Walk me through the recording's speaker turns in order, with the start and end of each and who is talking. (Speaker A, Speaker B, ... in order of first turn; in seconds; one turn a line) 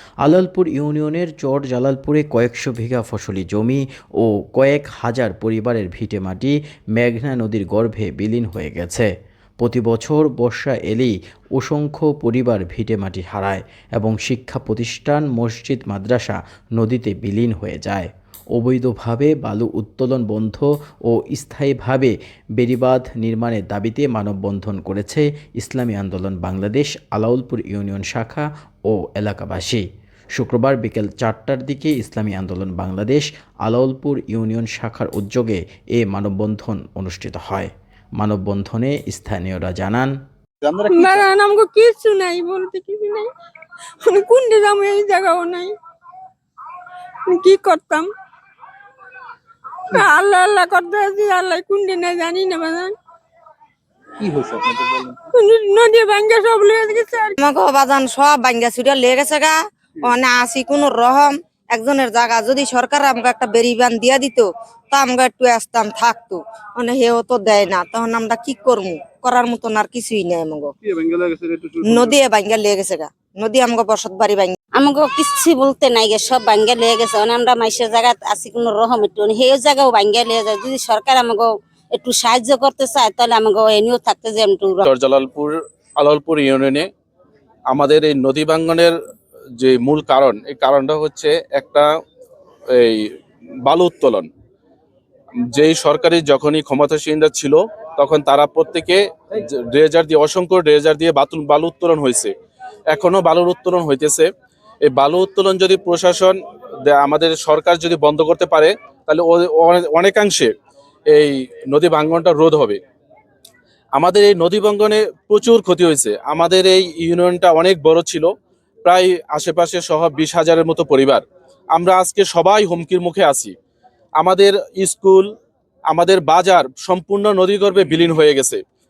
Speaker A: 0.2-29.8
Speaker A: 30.4-40.1
Speaker B: 40.6-41.3
Speaker C: 40.9-43.3
Speaker C: 44.0-45.8
Speaker C: 47.3-48.1
Speaker C: 49.9-52.9
Speaker B: 54.2-55.2
Speaker C: 55.3-57.4
Speaker D: 57.4-70.7
Speaker B: 70.9-72.2
Speaker D: 71.8-74.6
Speaker E: 74.8-84.8
Speaker F: 84.8-86.9
Speaker F: 87.7-88.9
Speaker F: 89.6-91.9
Speaker F: 92.7-93.1
Speaker F: 93.7-94.3
Speaker F: 95.5-102.3
Speaker F: 102.9-104.3
Speaker F: 104.8-110.5
Speaker F: 111.1-112.8
Speaker F: 114.0-118.3
Speaker F: 118.8-121.2
Speaker F: 121.7-123.5
Speaker F: 124.2-125.3
Speaker F: 125.9-128.6